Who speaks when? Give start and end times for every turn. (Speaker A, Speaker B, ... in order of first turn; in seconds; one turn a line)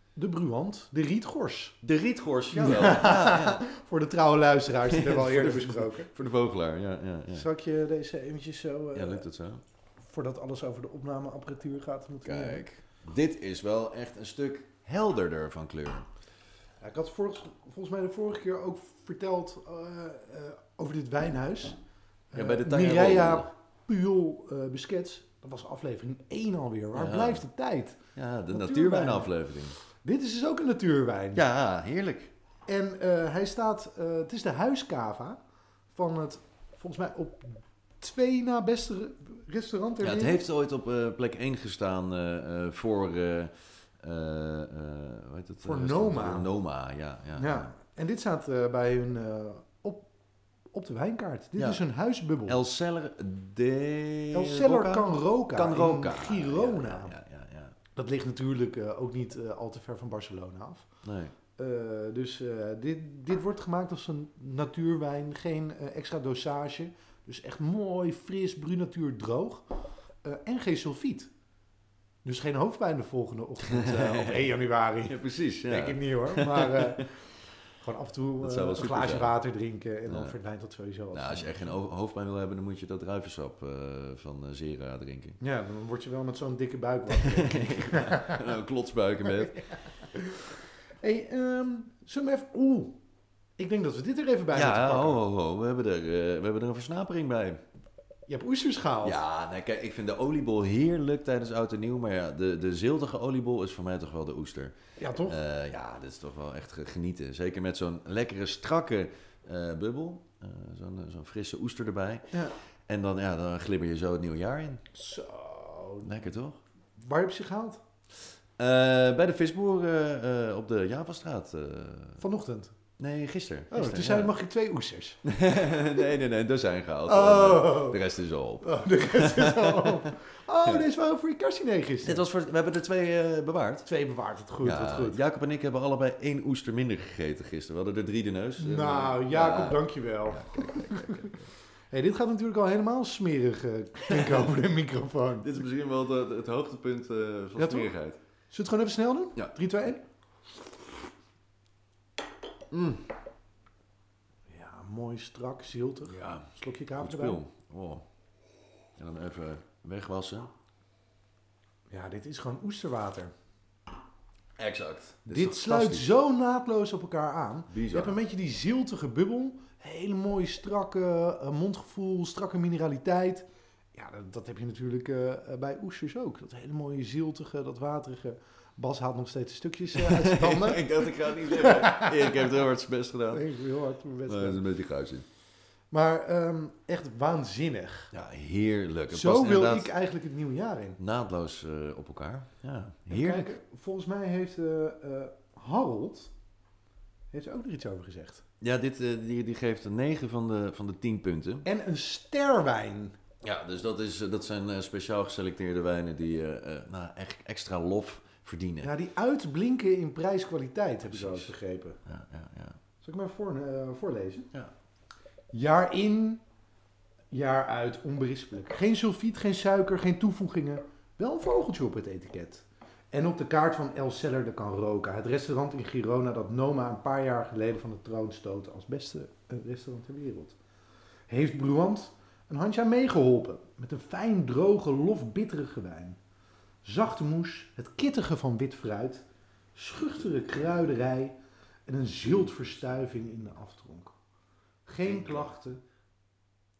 Speaker A: 0.1-1.8
Speaker B: 1.8-3.6
Speaker A: 2.5-6.1
Speaker B: 4.8-7.5
Speaker A: 7.3-9.3
Speaker B: 8.9-9.6
Speaker A: 10.0-12.6
Speaker B: 12.2-16.1
Speaker A: 16.8-21.8
Speaker A: 22.3-28.0
Speaker B: 22.3-23.5
Speaker B: 26.9-27.4
Speaker B: 28.1-29.8
Speaker A: 28.5-29.3
Speaker A: 29.9-31.4
Speaker B: 31.3-32.3
Speaker A: 32.7-35.4
Speaker A: 35.9-40.4
Speaker B: 40.0-47.7
Speaker A: 45.6-46.5
Speaker A: 47.4-50.1
Speaker A: 50.7-52.6
Speaker B: 51.6-51.8
Speaker B: 52.5-57.8
Speaker A: 54.3-57.1
Speaker A: 57.9-60.9
Speaker B: 61.0-61.3
Speaker A: 61.5-71.3
Speaker A: 72.2-77.2
Speaker B: 73.6-74.5
Speaker B: 75.0-77.1
Speaker A: 77.8-81.8
Speaker B: 78.4-79.3
Speaker B: 80.1-80.3
Speaker B: 81.1-85.4
Speaker A: 85.4-88.5
Speaker B: 87.1-89.6
Speaker A: 89.3-93.0
Speaker A: 93.6-95.2
Speaker B: 94.5-97.6
Speaker A: 98.3-99.2
Speaker B: 99.0-112.3
Speaker A: 105.0-105.4
Speaker B: 112.9-114.8
Speaker A: 114.9-116.3
Speaker B: 116.0-116.6
Speaker A: 117.0-117.8
Speaker B: 118.6-122.2
Speaker A: 122.2-122.7
Speaker B: 123.0-124.3
Speaker A: 123.7-125.2
Speaker B: 125.2-130.1
Speaker A: 127.1-128.0
Speaker A: 128.6-132.2
Speaker B: 132.0-133.9
Speaker A: 133.8-135.2
Speaker B: 134.6-141.5
Speaker A: 138.6-141.3
Speaker A: 141.9-145.6
Speaker B: 144.1-144.5
Speaker B: 145.4-148.2
Speaker A: 147.6-147.9
Speaker A: 148.5-150.0
Speaker B: 152.7-153.1
Speaker A: 154.5-157.4
Speaker B: 156.1-156.5
Speaker B: 157.0-158.0
Speaker B: 159.0-160.5
Speaker A: 161.9-163.3
Speaker B: 164.6-166.1
Speaker A: 165.2-182.6
Speaker B: 167.7-168.2
Speaker B: 179.9-183.5
Speaker A: 183.3-184.7
Speaker B: 184.3-185.2
Speaker A: 185.9-188.1
Speaker B: 188.1-189.9
Speaker A: 189.1-191.0
Speaker B: 191.0-193.5
Speaker A: 193.1-196.3
Speaker A: 197.3-198.4
Speaker B: 198.6-201.7
Speaker A: 201.6-203.2
Speaker B: 203.4-208.9
Speaker A: 208.8-212.0
Speaker B: 211.1-211.5
Speaker B: 212.0-212.8
Speaker A: 213.0-214.5
Speaker A: 215.5-216.4
Speaker A: 217.3-230.6
Speaker A: 231.3-236.2
Speaker A: 236.8-239.2
Speaker A: 239.8-244.1
Speaker A: 244.8-245.8
Speaker B: 245.0-245.5